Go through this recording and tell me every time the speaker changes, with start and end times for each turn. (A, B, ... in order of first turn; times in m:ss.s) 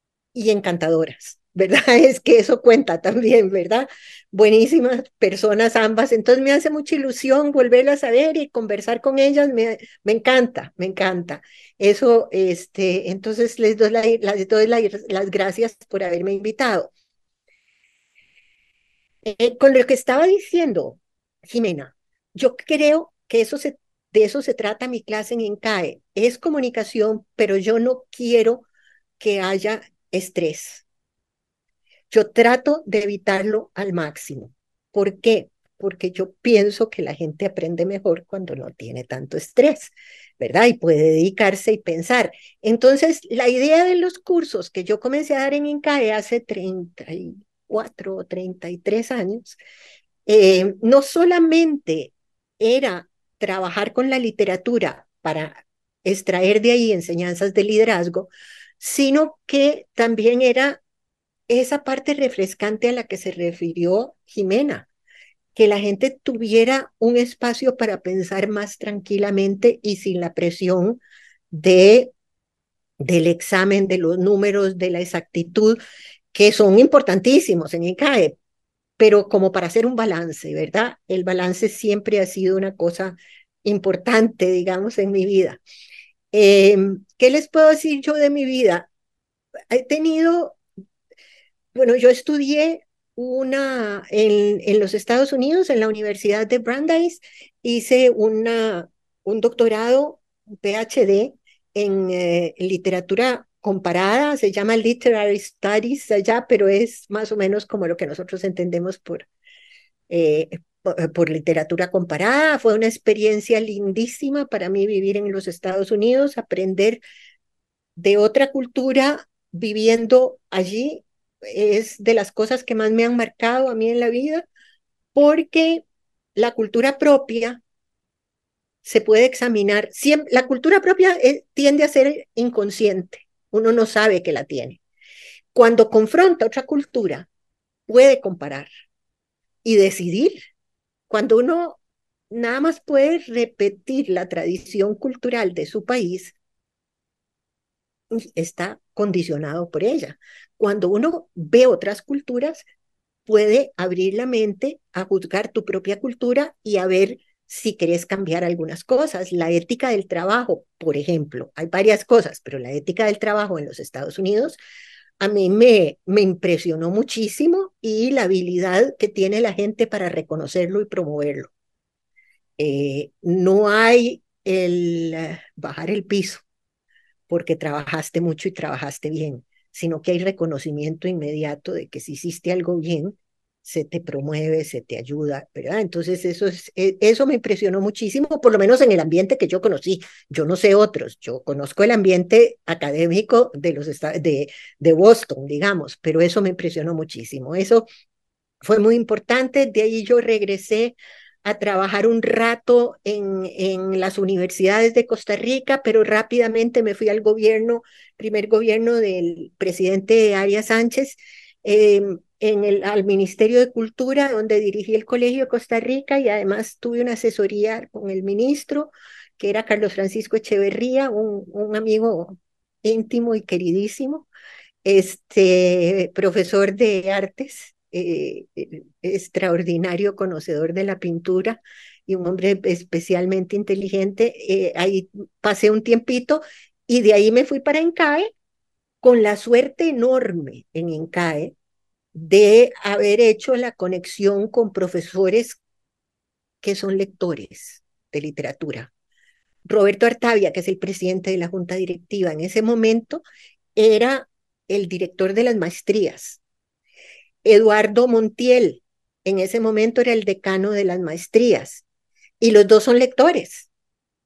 0:00.3-0:16.9 A
0:19.2-0:28.6 A
0:29.2-0:30.8 A
0:32.1-0:49.6 A
0:50.2-1:00.8 A
1:01.5-1:04.9 A
1:05.5-1:12.1 A
1:13.0-1:15.8 A
1:16.3-1:18.4 A
1:19.0-1:25.6 A
1:26.3-1:28.9 A
1:29.7-1:30.6 A
1:31.7-1:49.3 A
1:50.1-1:57.0 A
1:58.0-2:04.4 A
2:05.1-2:05.8 A
2:06.4-2:07.6 A
2:08.8-2:14.8 A
2:15.5-2:17.3 A
2:17.9-2:18.7 A
2:19.6-2:20.4 A
2:21.1-2:21.8 A
2:22.3-2:26.3 A
2:28.1-2:32.6 A
2:33.3-2:44.6 A
2:45.2-2:51.5 A
2:52.6-2:56.4 A
2:57.3-3:17.9 A
3:18.6-3:44.3 A
3:44.8-3:58.3 A
3:59.0-4:01.5 A
4:02.1-4:05.6 A
4:06.6-4:08.9 A
4:09.6-4:13.2 A
4:13.8-4:16.4 A
4:17.4-4:21.8 A
4:22.4-4:23.7 A